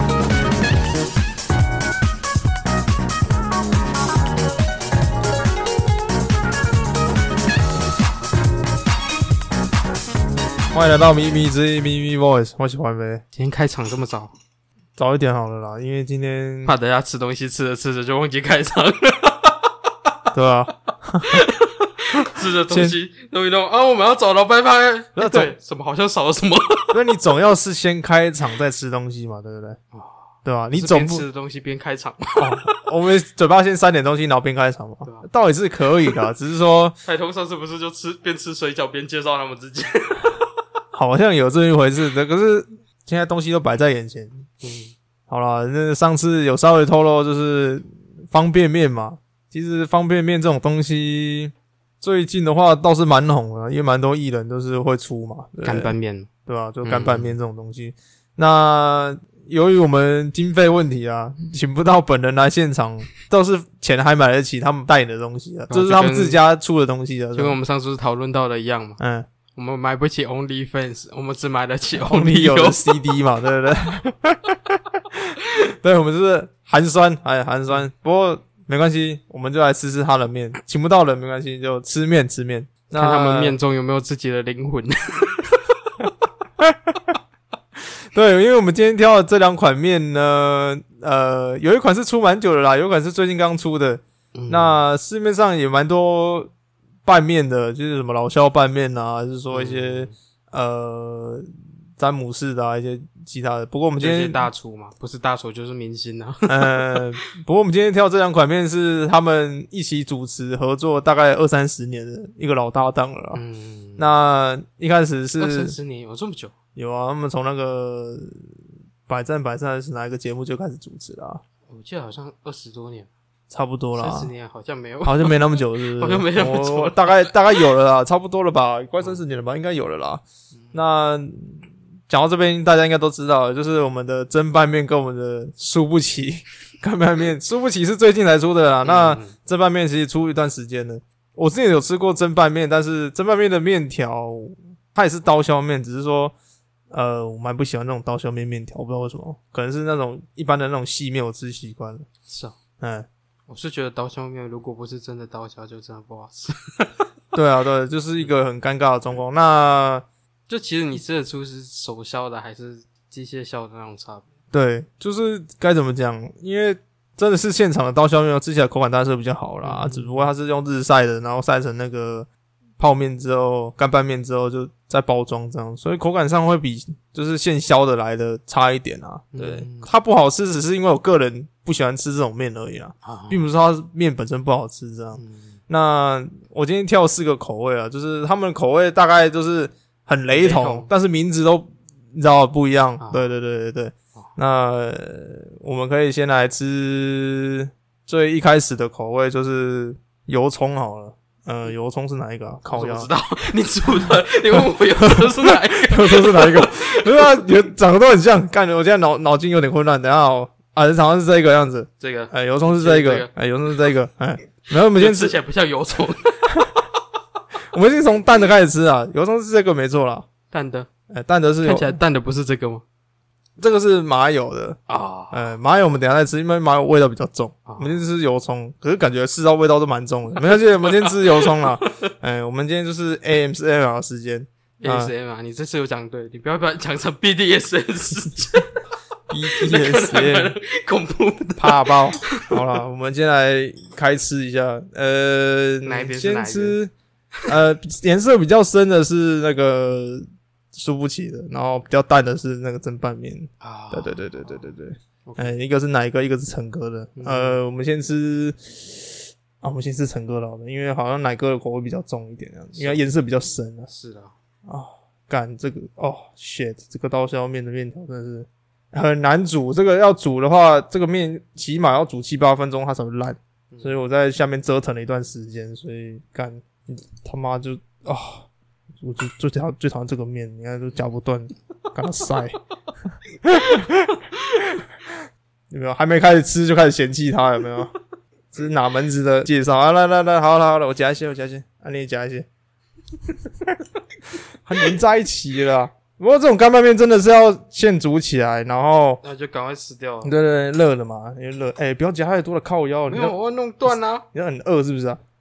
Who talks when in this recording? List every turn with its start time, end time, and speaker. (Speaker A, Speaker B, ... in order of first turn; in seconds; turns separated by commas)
Speaker A: 10.7-13.2, Speaker B: 13.3-14.3, Speaker A: 15.0-16.7, Speaker B: 16.6-19.7, Speaker A: 20.3-21.5, Speaker B: 21.3-26.9, Speaker A: 22.4-23.0, Speaker A: 25.2-25.5, Speaker A: 26.9-29.8, Speaker B: 29.9-32.8, Speaker A: 30.4-31.2, Speaker A: 32.4-37.0, Speaker B: 37.0-40.4, Speaker A: 40.9-44.5, Speaker B: 44.6-44.9, Speaker A: 45.3-56.0, Speaker B: 55.6-56.3, Speaker A: 56.5-67.6, Speaker B: 56.8-57.4, Speaker B: 65.7-66.4, Speaker B: 67.4-69.0, Speaker A: 69.0-69.3, Speaker B: 69.5-72.9, Speaker A: 72.0-83.6, Speaker B: 82.9-85.6, Speaker A: 86.6-87.1, Speaker A: 88.1-96.5, Speaker B: 94.4-94.8, Speaker A: 97.0-101.5, Speaker B: 99.5-100.1, Speaker A: 102.0-104.4, Speaker B: 104.0-107.1, Speaker A: 106.5-113.4, Speaker B: 113.3-114.1, Speaker A: 114.0-115.8, Speaker B: 115.4-116.5, Speaker A: 116.8-118.5, Speaker A: 119.1-121.4, Speaker B: 121.7-123.1, Speaker A: 123.5-124.3, Speaker B: 124.0-127.3, Speaker A: 125.0-146.3, Speaker B: 138.8-139.3, Speaker A: 146.9-152.1, Speaker B: 152.3-152.6, Speaker A: 152.8-153.1, Speaker B: 153.5-156.9, Speaker A: 157.3-160.1, Speaker B: 160.5-164.3, Speaker A: 164.5-172.3, Speaker B: 169.6-170.3, Speaker A: 172.8-203.1, Speaker B: 179.3-179.9, Speaker B: 183.0-183.4, Speaker B: 185.2-185.6, Speaker B: 190.3-190.9, Speaker B: 193.0-193.3, Speaker B: 202.7-207.4, Speaker A: 205.2-215.3, Speaker B: 212.0-213.3, Speaker B: 214.8-216.6, Speaker A: 217.7-220.3, Speaker B: 220.5-220.9, Speaker A: 221.1-222.0, Speaker B: 221.6-222.8, Speaker A: 223.6-224.8, Speaker B: 224.9-225.5, Speaker A: 225.3-235.1, Speaker B: 227.7-227.9, Speaker B: 230.4-232.1, Speaker B: 234.8-238.8, Speaker A: 239.3-240.6, Speaker B: 239.5-242.6, Speaker A: 241.6-246.9, Speaker B: 245.8-246.8, Speaker A: 247.4-263.9, Speaker B: 253.6-254.7, Speaker B: 255.2-255.6, Speaker B: 257.2-257.6, Speaker B: 262.8-263.0, Speaker B: 263.9-264.3, Speaker A: 264.7-282.6, Speaker A: 283.4-285.2, Speaker A: 285.7-287.9, Speaker A: 288.5-292.5, Speaker A: 293.3-293.9, Speaker A: 294.6-299.2, Speaker B: 299.2-300.3, Speaker A: 300.2-303.4, Speaker B: 303.1-304.2, Speaker A: 303.9-305.2